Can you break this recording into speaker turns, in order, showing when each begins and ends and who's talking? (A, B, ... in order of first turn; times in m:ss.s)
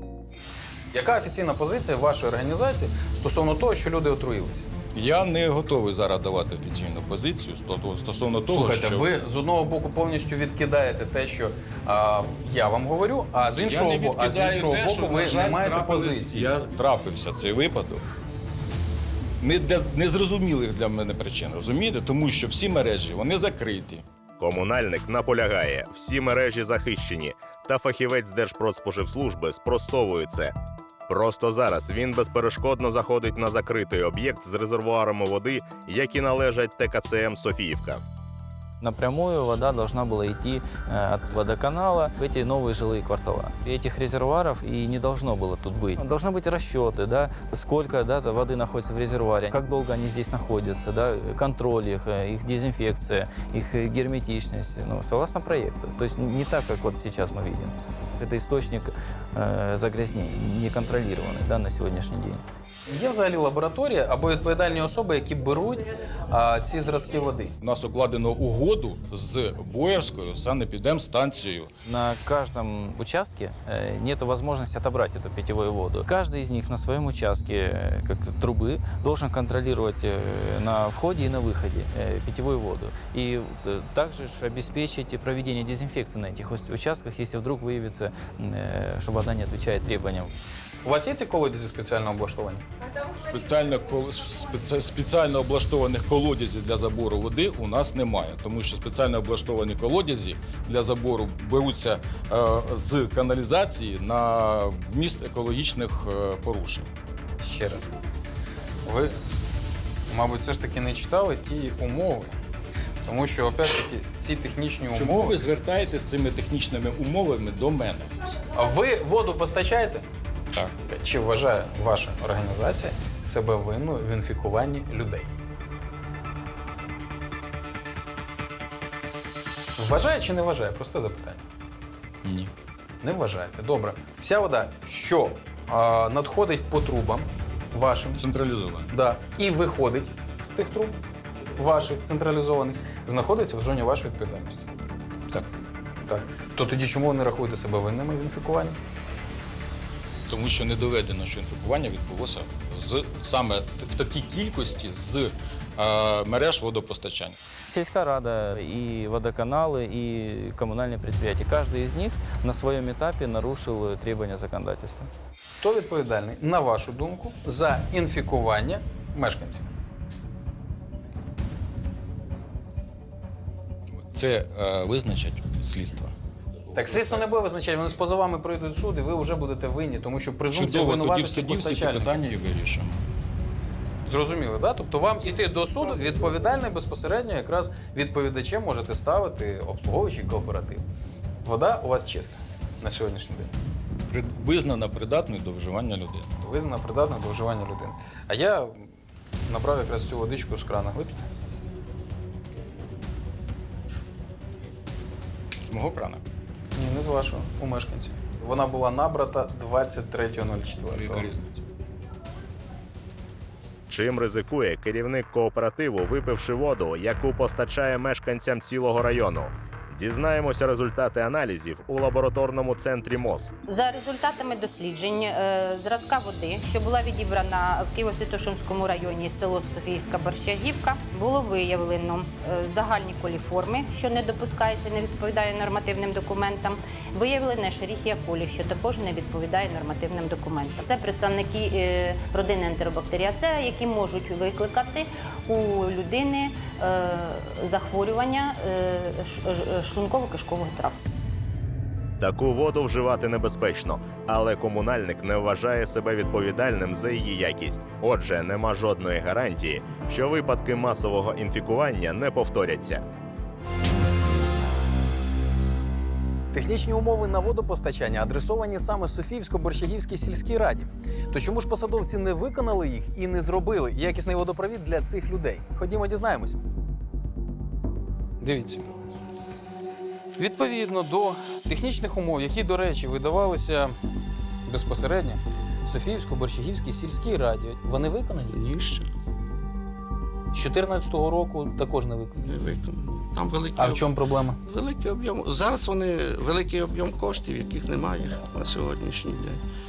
0:00.9-0:04.7 A
0:05.0-0:09.1 B
0:08.5-0:16.5 A
0:13.7-0:18.0 B
0:19.4-0:24.0 B
0:24.4-0:30.5 C
0:31.1-0:38.0 C
0:38.8-1:02.4 D
1:02.9-1:07.5 A
1:07.6-1:11.7 B
1:11.8-1:30.3 D
1:30.8-1:32.7 A
1:33.1-1:46.9 B
1:47.4-1:47.9 A
1:48.8-1:49.1 A
1:50.1-1:52.4 A
1:53.0-1:55.4 A
1:54.9-1:58.1 B
1:58.5-2:00.1 A
2:00.8-2:05.3 A
2:09.8-2:11.4 A
2:12.2-2:12.5 B
2:13.0-2:18.2 A
2:18.2-2:18.9 B
2:18.9-2:21.0 A
2:21.6-2:24.7 A
2:26.0-2:28.8 A
2:30.3-2:37.4 B
2:37.7-2:45.1 D
2:45.6-2:49.7 A
2:54.0-2:56.1 B
2:56.7-3:02.2 A
2:56.9-2:57.3 B
3:00.5-3:03.0 B
3:04.1-3:10.8 A
3:11.4-3:13.5 A
3:14.1-3:16.3 B
3:16.4-3:18.9 A
3:19.5-3:21.3 A
3:25.6-3:26.2 B
3:26.8-3:31.3 A
3:31.0-3:31.5 B
3:33.9-3:43.5 C
3:43.7-4:11.0 E
4:12.2-4:23.0 C
4:26.5-4:36.6 A
4:38.4-4:38.8 A
4:40.4-4:44.0 A
4:44.6-4:48.6 A
4:48.5-4:49.1 F
4:50.5-4:52.4 A
4:52.4-4:54.1 F
4:53.8-4:54.6 A
4:54.6-4:59.6 F